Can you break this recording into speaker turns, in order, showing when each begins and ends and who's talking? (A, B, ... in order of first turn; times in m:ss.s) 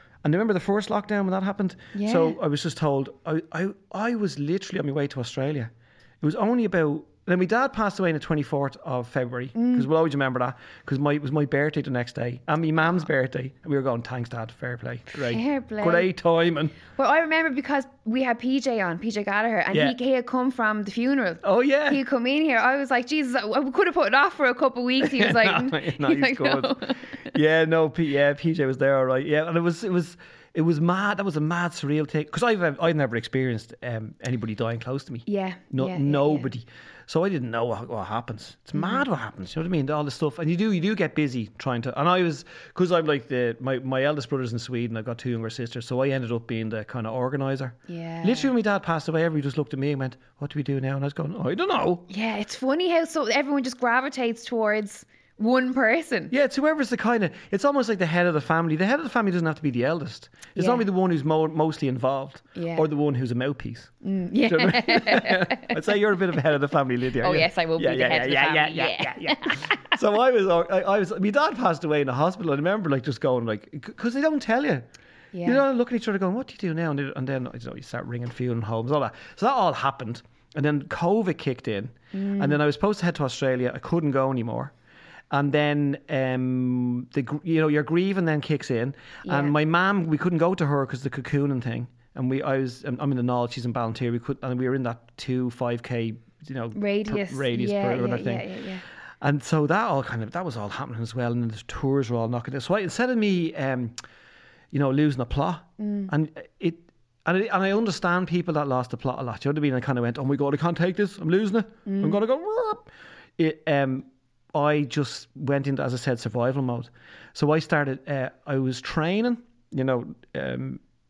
0:00.2-0:16.8 A
0:01.9-0:02.4 B
0:09.6-0:09.9 B
0:15.2-0:16.1 B
0:16.9-0:27.2 B
0:19.7-0:20.0 A
0:21.4-0:22.0 A
0:25.0-0:52.1 A
0:35.3-0:36.5 B
0:47.9-0:48.5 B
0:52.1-0:56.3 B
0:56.3-1:03.9 A
1:00.5-1:00.8 B
1:02.5-1:02.8 B
1:04.0-1:05.8 B
1:04.4-1:14.9 A
1:07.2-1:09.8 B
1:15.3-1:15.6 B
1:15.4-1:24.7 A
1:22.1-1:22.6 B
1:25.3-1:38.5 A
1:29.2-1:29.5 B
1:36.7-1:38.8 B
1:39.2-1:44.0 A
1:44.7-2:00.8 A
1:45.8-1:46.1 B
1:51.8-1:52.2 B